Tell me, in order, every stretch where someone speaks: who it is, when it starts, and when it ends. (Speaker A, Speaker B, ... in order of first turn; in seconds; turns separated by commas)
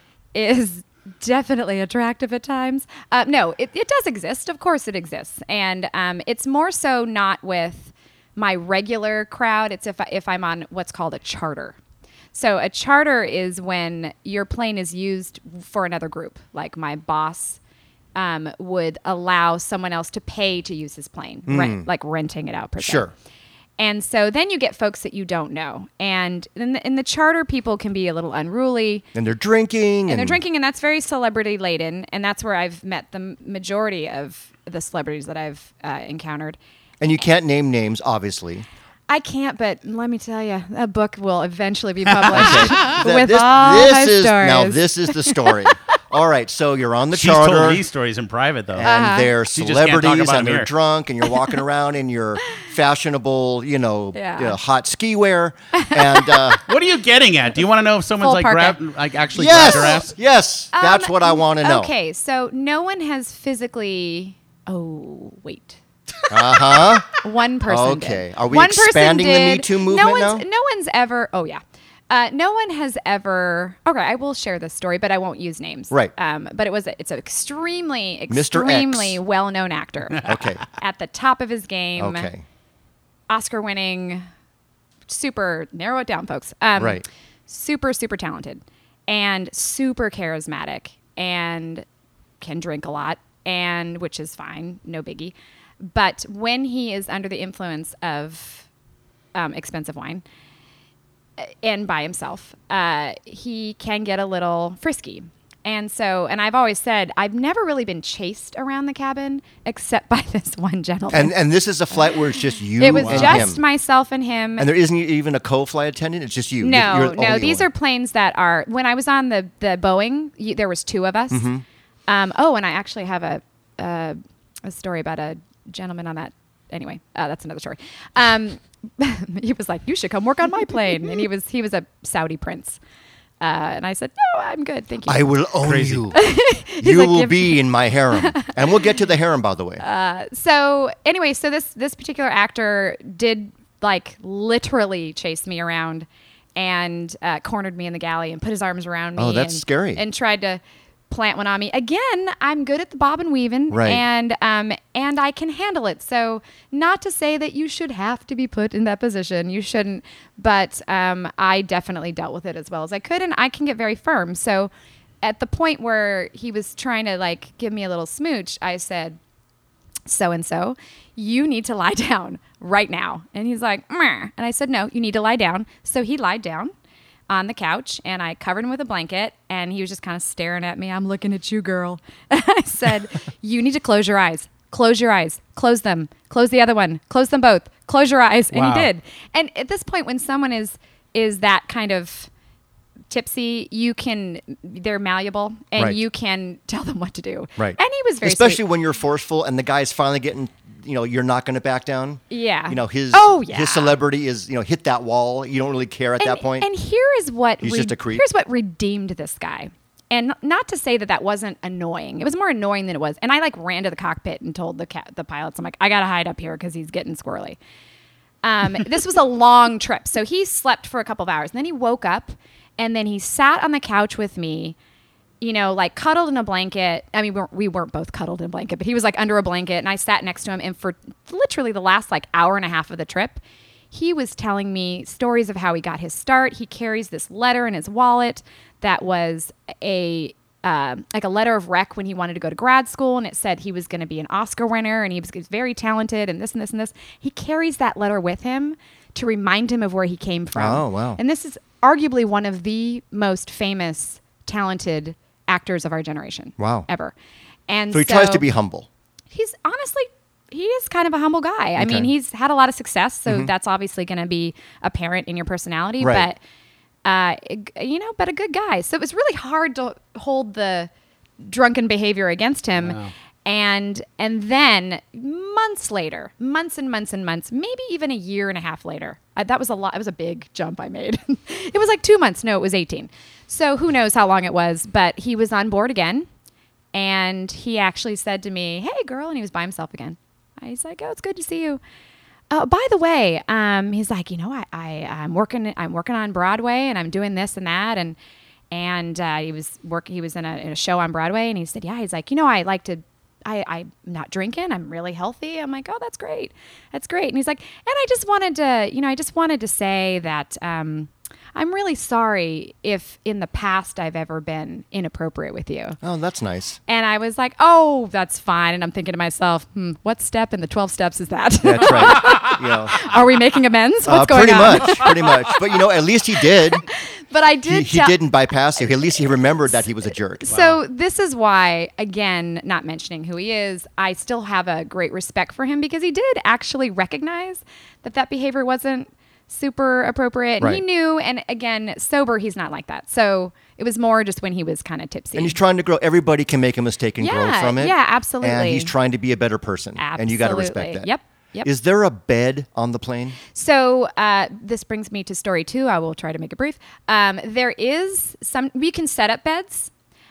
Speaker A: 0.3-11.8, Speaker A: 12.3-17.6, Speaker A: 18.2-23.1, Speaker B: 21.5-21.9, Speaker B: 22.8-23.1, Speaker A: 23.8-29.1, Speaker B: 29.1-30.4, Speaker A: 30.1-36.6, Speaker B: 37.0-38.7, Speaker A: 39.1-45.6, Speaker C: 42.1-43.0, Speaker B: 42.3-47.8, Speaker C: 47.1-48.9, Speaker B: 48.7-56.6, Speaker A: 48.8-49.3, Speaker C: 49.5-50.7, Speaker A: 54.1-54.6, Speaker A: 55.8-56.6, Speaker C: 56.7-60.1, Speaker A: 58.2-58.8, Speaker B: 59.4-61.9, Speaker A: 59.5-60.0, Speaker A: 60.7-65.8, Speaker B: 66.3-67.1, Speaker A: 67.1-82.3, Speaker B: 67.7-70.5, Speaker B: 78.3-79.2, Speaker B: 80.2-80.6, Speaker B: 82.0-82.4, Speaker A: 83.3-84.2, Speaker A: 85.1-91.8, Speaker B: 86.8-87.0, Speaker A: 92.4-95.3, Speaker A: 95.8-98.7, Speaker A: 99.3-100.2, Speaker A: 101.4-111.4, Speaker B: 111.1-113.6, Speaker A: 112.8-114.7, Speaker C: 113.0-113.5, Speaker B: 114.6-117.7, Speaker A: 116.6-121.5, Speaker B: 121.3-121.6, Speaker A: 122.1-132.8, Speaker A: 133.4-135.4, Speaker B: 135.1-136.2, Speaker C: 135.6-136.1, Speaker A: 136.1-137.6, Speaker B: 136.8-139.8, Speaker A: 138.2-138.5, Speaker A: 139.8-164.7, Speaker B: 149.2-150.0, Speaker B: 153.7-154.0, Speaker A: 165.2-169.2, Speaker A: 170.1-176.7, Speaker A: 177.3-192.3, Speaker C: 188.5-188.9, Speaker A: 193.1-198.6, Speaker B: 197.6-206.7, Speaker A: 202.3-204.0, Speaker A: 206.2-217.6, Speaker B: 207.6-208.2, Speaker A: 218.4-224.8, Speaker A: 225.4-257.1, Speaker B: 250.6-251.2, Speaker B: 256.6-256.9, Speaker A: 257.7-258.4, Speaker B: 257.9-258.9, Speaker A: 259.3-266.4, Speaker B: 261.8-262.1, Speaker B: 266.0-266.3, Speaker A: 267.1-270.9, Speaker A: 271.4-286.3, Speaker C: 272.8-273.1, Speaker A: 286.9-291.8, Speaker A: 292.5-298.2, Speaker A: 298.7-316.0, Speaker B: 316.0-316.8, Speaker A: 316.9-325.1, Speaker B: 321.6-323.1, Speaker B: 324.1-326.8, Speaker A: 326.9-328.2, Speaker B: 327.7-330.6, Speaker A: 328.8-329.8, Speaker A: 330.4-345.6, Speaker C: 330.5-330.8, Speaker B: 345.4-351.1, Speaker A: 347.2-348.9, Speaker A: 350.0-351.7, Speaker B: 351.6-353.4, Speaker A: 353.5-359.9